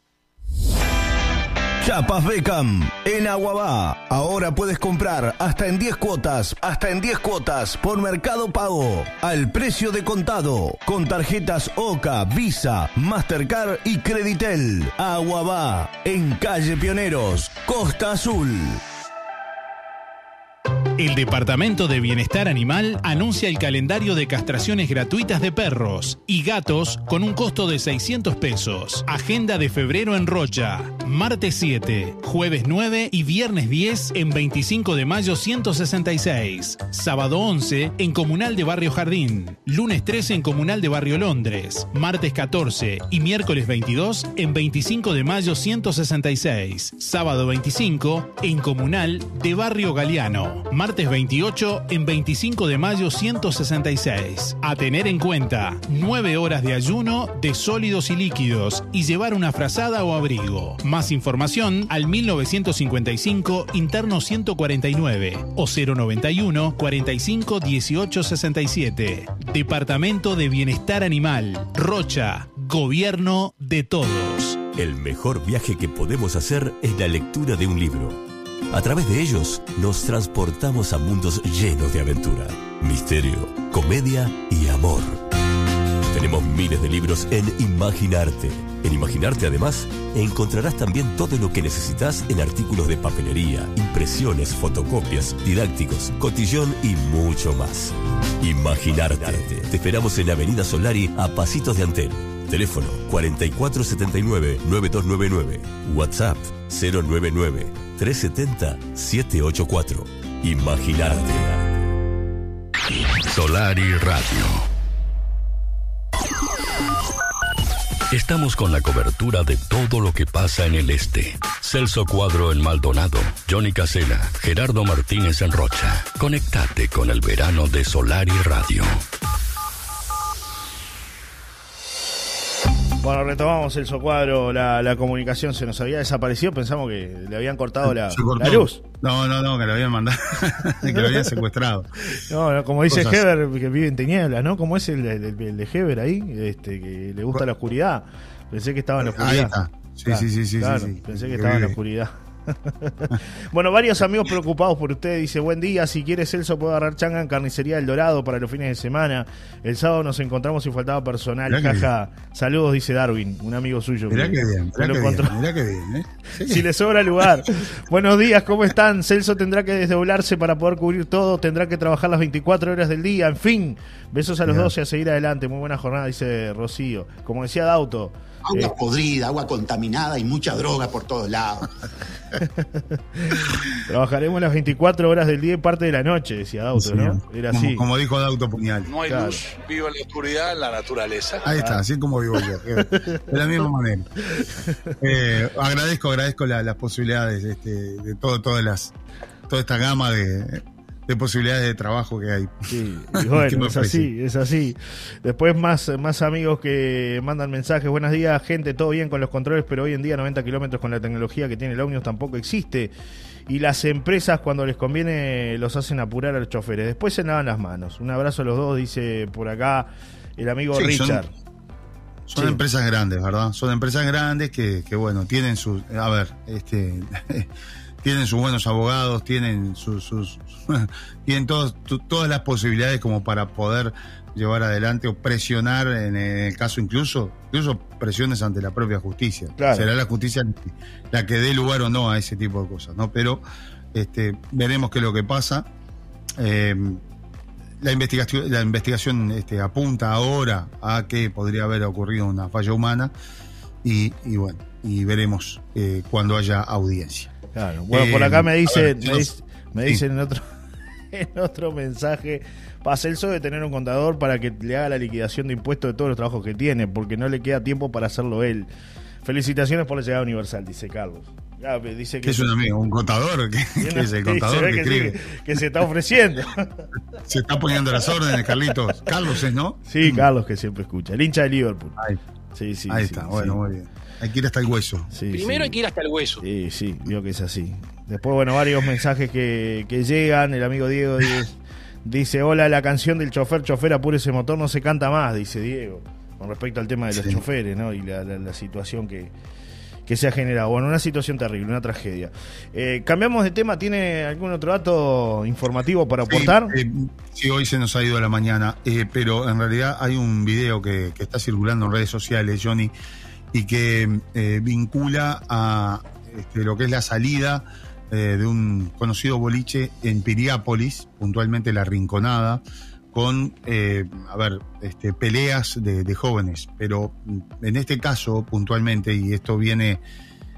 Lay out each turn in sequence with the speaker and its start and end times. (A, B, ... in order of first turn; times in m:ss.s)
0:01.8-0:18.8 A
0:21.0-1:14.6 B
1:14.8-1:18.2 C
1:18.7-1:25.2 C
1:26.1-1:51.8 C
1:53.3-1:54.7 D
1:58.1-2:09.0 D
2:13.0-2:18.8 E
2:17.8-2:21.9 F
2:20.9-2:21.3 E
2:22.2-2:29.6 E
2:22.9-2:23.2 F
2:29.0-2:31.8 F
2:30.1-2:45.4 E
2:41.5-2:41.9 F
2:44.1-2:46.7 F
2:46.4-2:58.7 E
2:54.5-2:54.7 F
2:58.5-3:01.7 G
3:02.4-3:07.9 E
3:06.8-3:08.9 F
3:08.9-3:11.4 H
3:09.0-3:09.4 E
3:11.4-3:14.1 F
3:11.5-3:11.8 E
3:12.8-3:13.2 E
3:14.3-3:15.0 E
3:15.0-3:18.9 F
3:19.5-3:24.1 F
3:22.7-3:32.9 E
3:33.5-3:41.3 E
3:40.7-3:41.3 F
3:42.3-3:47.5 F
3:42.3-3:42.6 E
3:48.0-4:05.7 F
3:59.6-3:59.9 E
4:06.4-4:07.0 F
4:07.8-4:13.1 F
4:13.8-4:17.3 F
4:17.5-4:20.4 E
4:17.9-4:19.3 F
4:21.1-4:28.7 E
4:29.2-4:32.5 E
4:32.2-4:35.2 F
4:33.8-4:36.8 E
4:37.3-4:40.3 F
4:39.9-4:42.0 E
4:42.5-4:43.6 E
4:42.9-4:45.1 F
4:45.1-4:45.8 E
4:45.3-4:46.4 H
4:46.4-4:59.3 E
4:57.1-4:57.4 F
5:00.1-5:06.8 E
5:06.3-5:12.9 F
5:13.5-5:30.0 F